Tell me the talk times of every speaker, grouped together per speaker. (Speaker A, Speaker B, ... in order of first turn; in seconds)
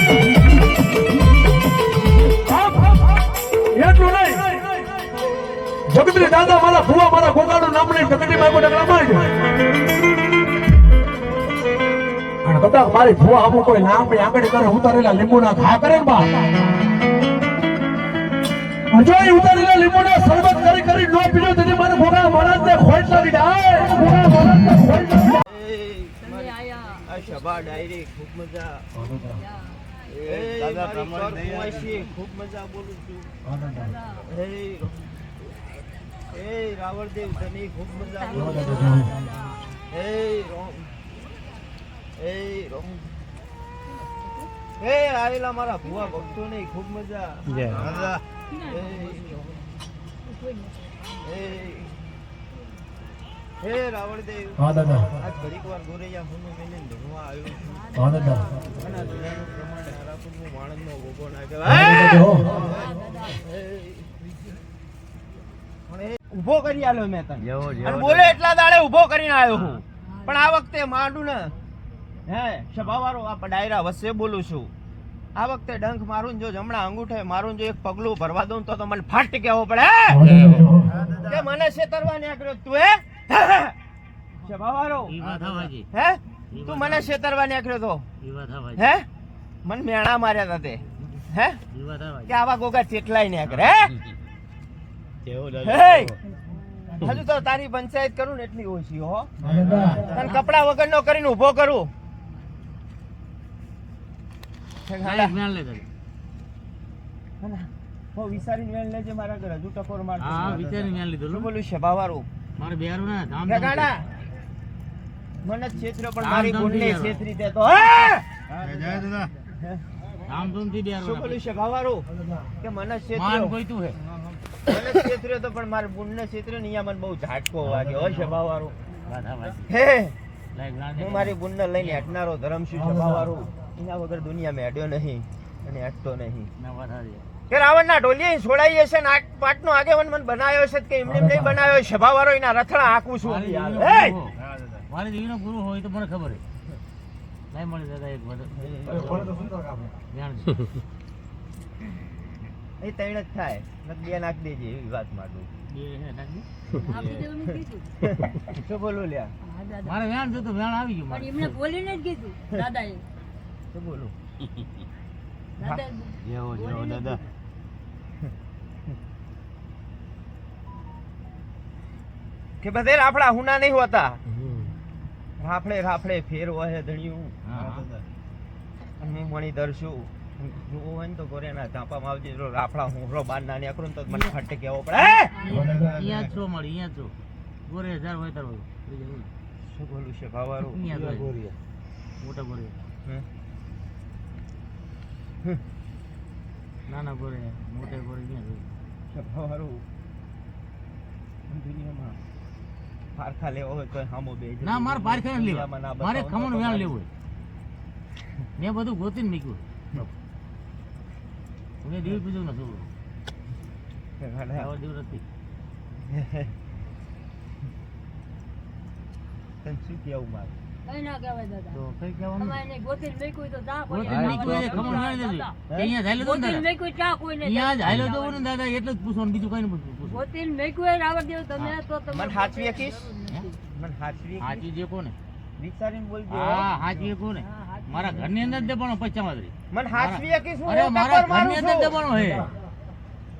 Speaker A: 2.5-3.1, 3.8-4.8, 5.9-9.3, 12.4-16.4, 18.9-25.4
Speaker B: 25.4-28.9, 30.2-33.3, 34.2-35.0, 36.3-38.8, 39.9-40.9, 42.2-43.1, 44.8-48.1, 48.7-49.6, 51.2-52.0, 53.6-64.1, 65.9-71.5, 72.3-74.7, 75.3-80.5, 81.2-83.8, 84.4-85.2, 85.9-88.1, 88.8-89.1, 89.7-91.6, 92.3-94.0, 95.6-96.2, 97.0-99.3, 99.8-101.9, 104.9-105.4, 107.4-112.3, 113.4-114.1, 115.4-118.3, 121.0-123.6, 124.7-128.7, 129.7-130.2, 131.0-136.5, 137.5-144.2, 148.6-149.4, 152.8-155.5, 158.0-159.3, 163.7-164.1, 172.6-174.2, 175.4-177.4, 179.0-185.5, 189.6-190.8, 199.1-199.8, 201.5-202.2, 203.2-207.0, 214.2-214.7, 216.0-216.5, 219.6-220.6, 225.7-225.9, 232.1-234.7, 235.6-237.1, 239.7-242.0
Speaker C: 26.2-27.1, 29.3-29.8, 33.8-34.2, 38.1-39.6, 48.5-48.8, 50.4-50.7, 62.8-63.3, 156.8-157.9, 159.4-159.9, 161.1-163.1, 165.6-167.2, 185.3-185.7, 220.9-221.8, 222.4-225.6, 226.1-228.4, 230.0-233.6, 237.4-238.7
Speaker D: 30.5-32.0, 67.5-68.4, 85.3-85.7, 95.3-96.2, 99.5-100.0, 118.7-119.3, 156.9-157.2, 166.2-167.2, 191.1-191.3, 224.1-224.7
Speaker E: 80.3-80.8, 85.1-85.9, 86.5-87.1, 88.2-88.9, 91.7-92.3, 105.0-105.9, 110.2-111.5, 112.6-113.9, 116.2-117.2, 120.3-121.4, 123.1-124.0, 129.1-129.7, 130.6-132.1, 136.6-137.3, 143.2-146.4, 147.5-148.5, 150.1-150.6, 155.7-156.5, 159.8-161.6, 177.5-177.9, 185.4-187.1, 187.7-189.3, 190.7-191.4, 192.2-192.8, 196.9-198.6, 204.6-207.1, 208.6-210.1, 211.8-212.9, 214.6-215.2, 221.7-222.6, 223.9-226.7, 227.4-230.2, 234.4-235.2, 236.3-242.5